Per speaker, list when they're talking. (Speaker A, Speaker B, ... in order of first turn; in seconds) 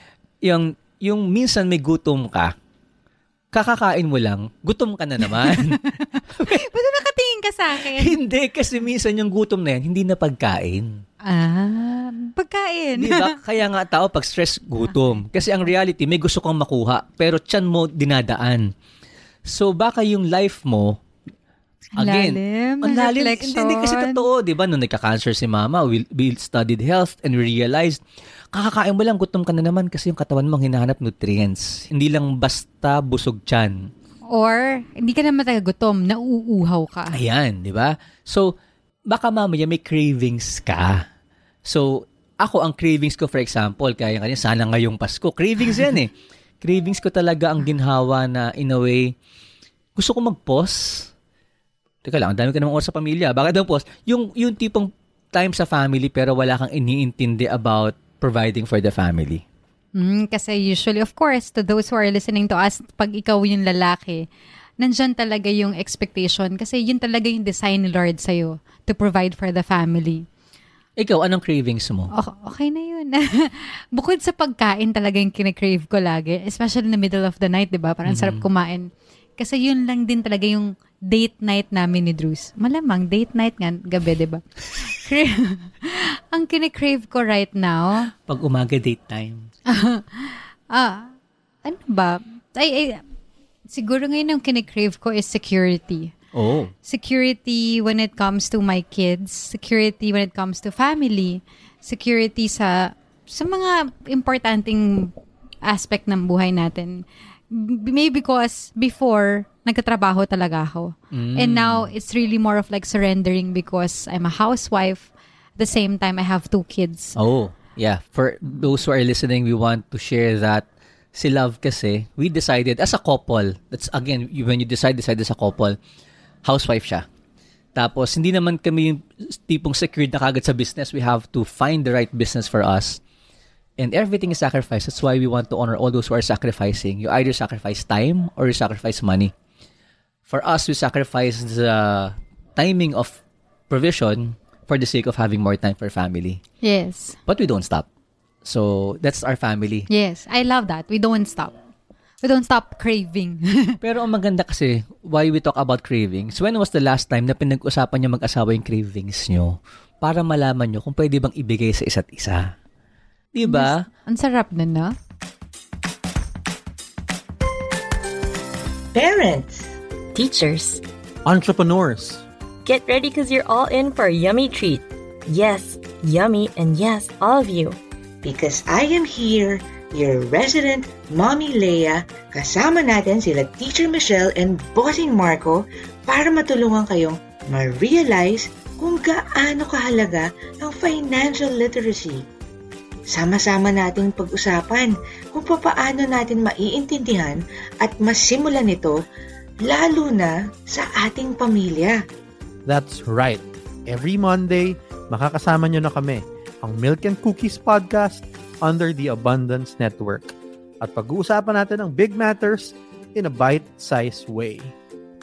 Speaker A: 0.4-2.5, 3.5-6.6, 7.8-11.0, 13.0-18.7, 19.4-21.0, 22.0-28.0, 28.5-33.9, 37.1-38.5, 39.1-41.1, 41.6-49.1, 50.0-51.1, 52.0-59.4, 71.0-72.1, 78.0-78.4, 88.1-89.5, 96.3-96.7, 111.1-111.9, 117.2-125.8, 126.4-127.0, 127.8-133.0, 133.8-139.3, 140.3-146.4, 147.3-147.9, 148.4-149.9, 153.8-162.5, 163.3-163.9
Speaker B: 5.4-8.2, 11.2-13.4, 22.0-24.2, 34.3-37.2, 60.0-64.2, 64.8-70.2, 72.1-88.1, 89.7-93.0, 93.7-96.1, 96.8-117.2, 146.6-147.2, 149.9-151.5, 152.2-153.8, 163.4-164.9
Speaker C: 168.9-169.7, 178.2-192.2, 193.1-199.0, 199.6-202.0
Speaker D: 170.1-170.8, 172.6-177.8
Speaker E: 171.2-172.2, 202.7-214.7